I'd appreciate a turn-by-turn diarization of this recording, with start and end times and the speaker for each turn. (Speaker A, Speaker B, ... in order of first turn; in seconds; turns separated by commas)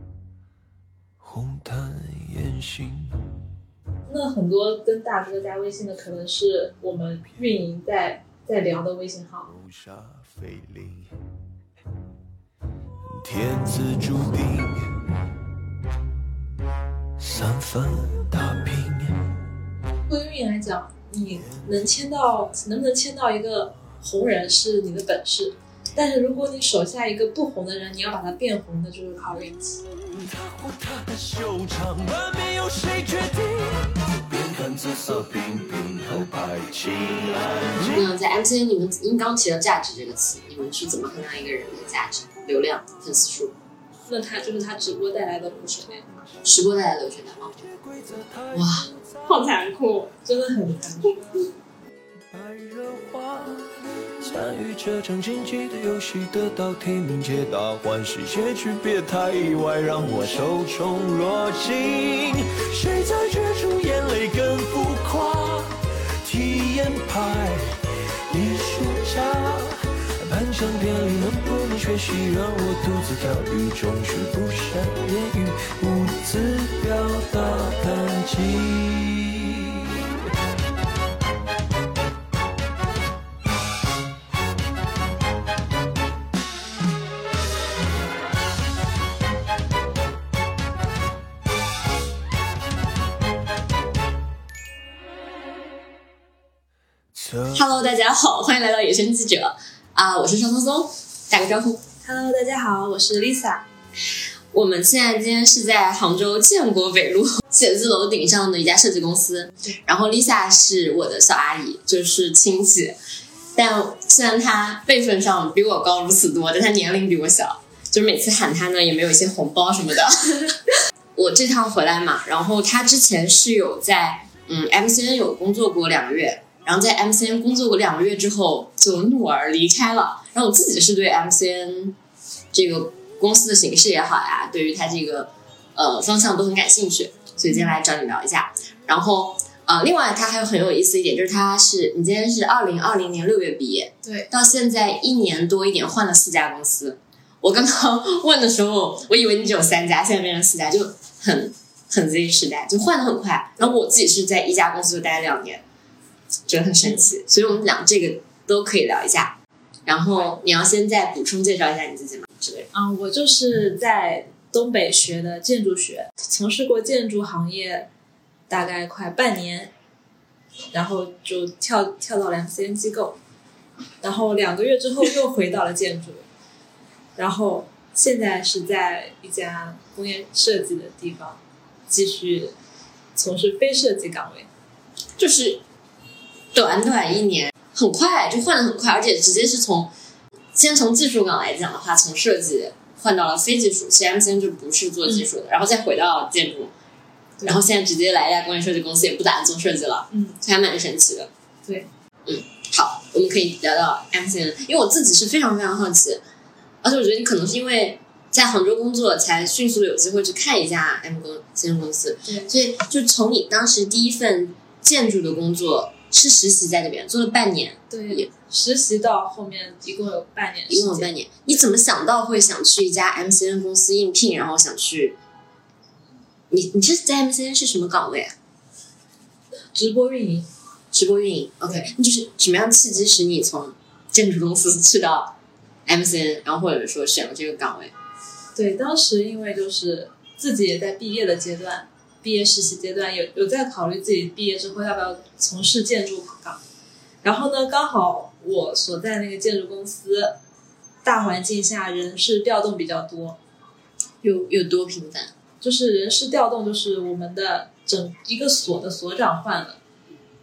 Speaker A: 1.2-3.2, Speaker B: 4.1-9.5, Speaker A: 9.5-11.1, Speaker A: 13.1-15.1, Speaker A: 17.2-19.3, Speaker B: 20.1-29.8, Speaker A: 30.1-38.0, Speaker C: 37.9-43.5, Speaker B: 44.1-46.0, Speaker C: 46.4-47.5, Speaker A: 47.6-49.3, Speaker C: 48.5-50.1, Speaker B: 50.1-51.5, Speaker A: 52.3-80.2, Speaker A: 97.1-97.6, Speaker C: 97.5-101.8, Speaker B: 102.0-103.7, Speaker C: 104.5-113.0, Speaker C: 113.5-120.6, Speaker C: 121.1-132.0, Speaker C: 132.5-155.6, Speaker B: 137.5-137.7, Speaker B: 144.0-144.3, Speaker B: 153.6-154.0, Speaker C: 156.5-162.7, Speaker B: 156.8-157.1, Speaker B: 162.7-167.9, Speaker B: 168.5-169.7, Speaker B: 170.7-173.2, Speaker B: 174.0-176.2, Speaker B: 177.2-182.5, Speaker B: 183.1-184.5, Speaker C: 185.2-185.6, Speaker C: 186.5-189.9, Speaker C: 190.5-196.7, Speaker C: 197.4-201.3, Speaker B: 200.1-200.4, Speaker C: 202.2-206.2, Speaker C: 206.8-218.3, Speaker B: 212.2-212.5, Speaker B: 217.9-221.1, Speaker C: 220.7-225.2, Speaker C: 226.5-228.3, Speaker B: 229.7-230.5, Speaker C: 230.9-237.9, Speaker B: 238.5-246.6, Speaker B: 247.2-250.4, Speaker B: 251.0-253.4, Speaker C: 254.2-255.3, Speaker B: 255.6-259.8